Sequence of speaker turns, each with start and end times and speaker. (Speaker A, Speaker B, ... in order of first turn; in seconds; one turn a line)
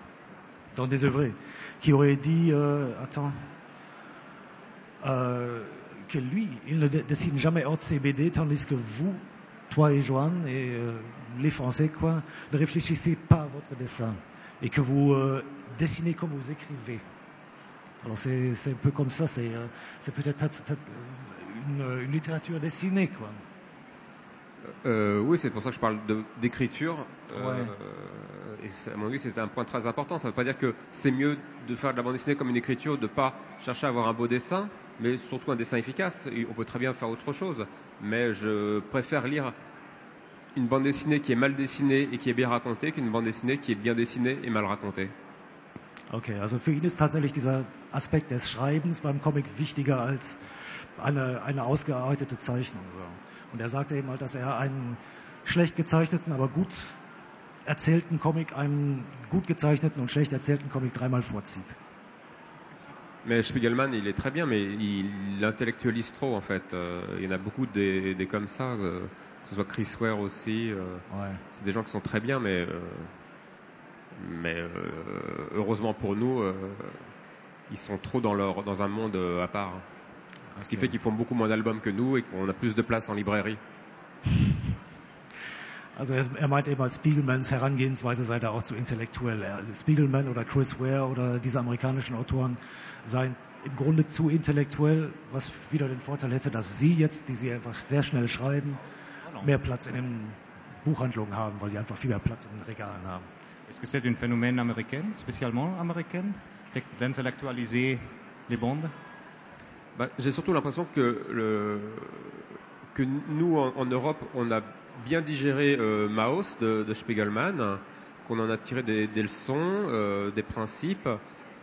Speaker A: 0.7-3.5
Speaker A: 5.0-17.0
Speaker A: 18.0-23.4
Speaker B: 24.6-39.5
Speaker A: 27.3-27.7
Speaker B: 40.5-45.1
Speaker A: 46.1-50.4
Speaker A: 51.0-57.0
Speaker A: 57.6-61.8
Speaker B: 63.2-73.1
Speaker A: 71.1-71.4
Speaker B: 74.1-77.1
Speaker B: 77.7-79.8
Speaker A: 80.5-80.9
Speaker B: 80.6-83.6
Speaker A: 86.0-98.8
Speaker A: 99.4-103.3
Speaker C: 103.7-108.9
Speaker B: 110.0-121.2